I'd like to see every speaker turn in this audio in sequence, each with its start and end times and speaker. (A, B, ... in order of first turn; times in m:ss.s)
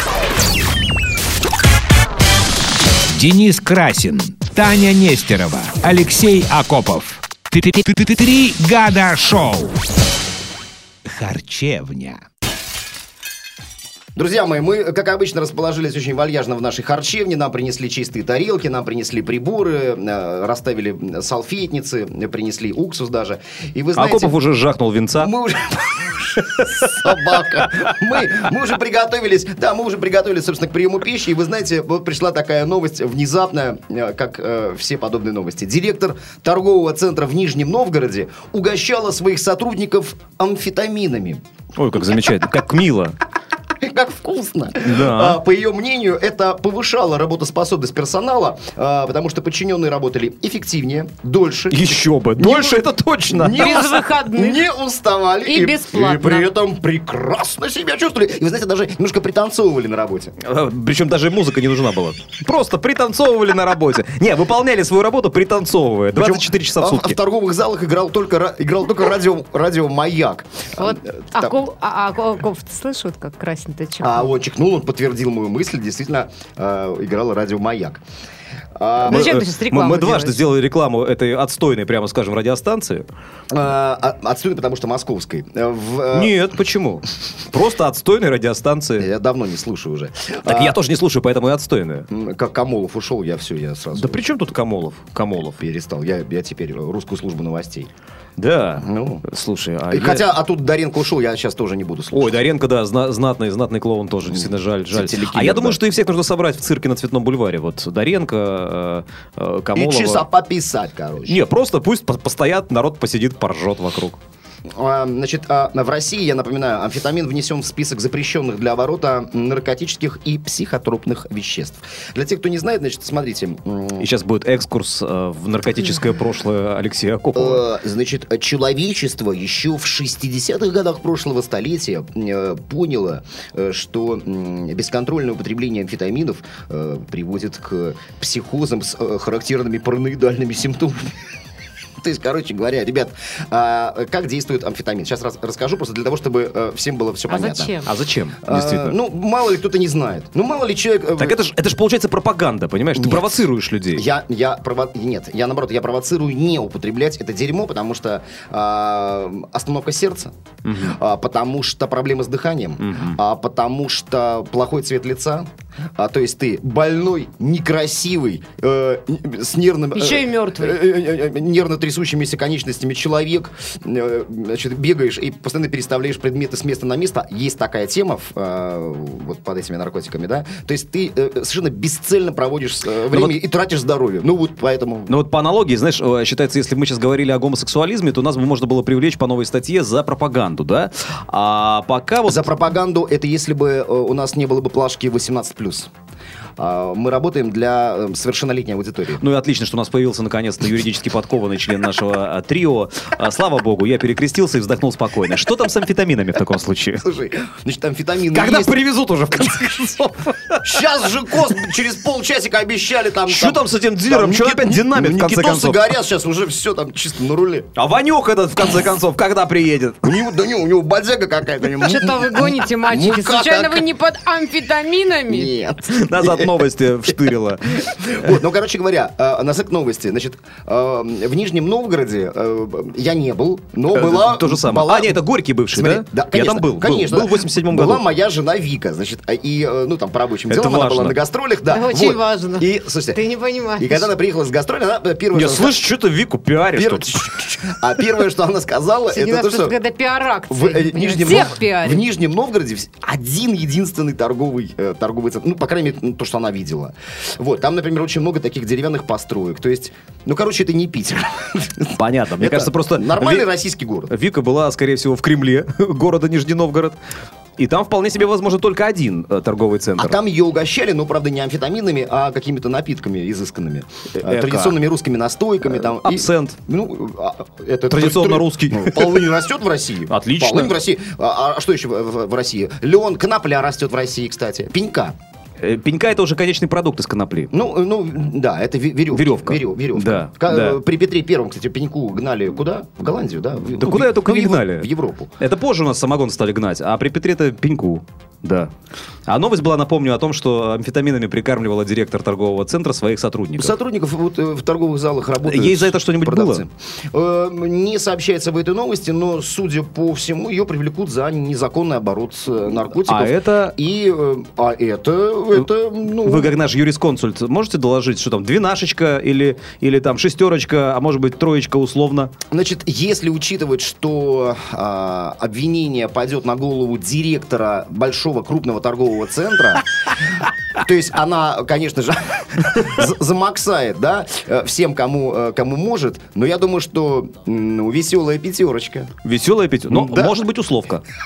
0:03.1-0:09.8 A
0:11.0-0:12.2 A
0:14.2-0:24.4 B
0:24.0-0:25.3 C
0:25.2-0:41.4 B
0:26.5-0:27.6 C
0:41.7-0:43.1 C
0:43.8-1:00.3 B
0:44.8-0:45.4 C
0:51.7-0:53.7 C
0:53.5-0:54.6 D
0:55.4-0:56.5 D
1:00.4-1:07.2 C
1:06.1-1:11.6 B
1:10.8-1:14.3 D
1:14.0-1:18.0 B
1:18.8-1:19.4 B
1:19.0-1:20.4 D
1:19.1-1:23.1 C
1:23.5-1:26.3 B
1:26.1-1:29.1 C
1:29.0-1:30.8 B
1:30.4-1:32.1 C
1:32.1-1:34.2 B
1:33.9-1:35.6 C
1:35.6-1:37.9 B
1:38.4-1:40.3 C
1:38.8-1:39.2 B
1:39.9-1:42.4 B
1:42.1-1:50.2 C
1:44.3-1:45.8 B
1:49.7-1:51.4 B
1:51.2-1:54.2 C
1:54.7-2:04.1 B
2:04.0-2:07.6 C
2:07.3-2:21.1 B
2:22.0-2:27.8 B
2:27.3-2:27.9 D
2:27.8-2:29.0 C
2:28.4-2:31.4 B
2:31.2-2:34.0 C
2:32.9-3:05.1 B
2:40.6-2:41.0 C
2:42.8-2:43.2 C
2:49.9-2:50.8 D
3:03.1-3:03.3 C
3:05.1-3:12.4 C
3:12.2-3:15.9 B
3:16.6-3:19.2 B
3:19.2-3:27.0 C
3:27.0-3:28.8 B
3:28.3-3:30.8 C
3:30.6-3:37.7 B
3:33.3-3:35.9 C
3:37.8-3:40.1 C
3:40.0-3:43.9 B
3:41.8-3:45.5 D
3:45.3-3:46.6 B
3:45.8-3:48.4 C
3:47.9-4:03.2 B
3:53.9-3:58.0 C
4:00.5-4:01.2 C
4:01.7-4:04.1 D
4:03.8-4:05.8 B
4:05.3-4:07.1 C
4:06.7-4:09.8 B
4:09.1-4:12.0 D
4:10.5-4:24.1 B
4:21.9-4:23.4 C
4:24.1-4:27.0 C
4:27.6-4:30.2 C
4:30.0-4:45.1 B
4:34.2-4:34.8 C
4:35.6-4:36.6 C
4:37.9-4:39.2 C
4:40.1-4:40.7 C
4:45.6-4:47.5 C
4:47.5-4:55.3 B
4:49.1-4:50.8 C
4:53.7-4:58.7 C
4:59.3-5:03.7 C
5:03.6-5:16.5 B
5:05.4-5:06.6 C
5:13.0-5:13.8 C
5:16.2-5:22.3 C
5:22.5-5:29.8 B
5:30.8-5:39.1 B
5:39.2-5:41.0 C
5:39.9-5:40.4 B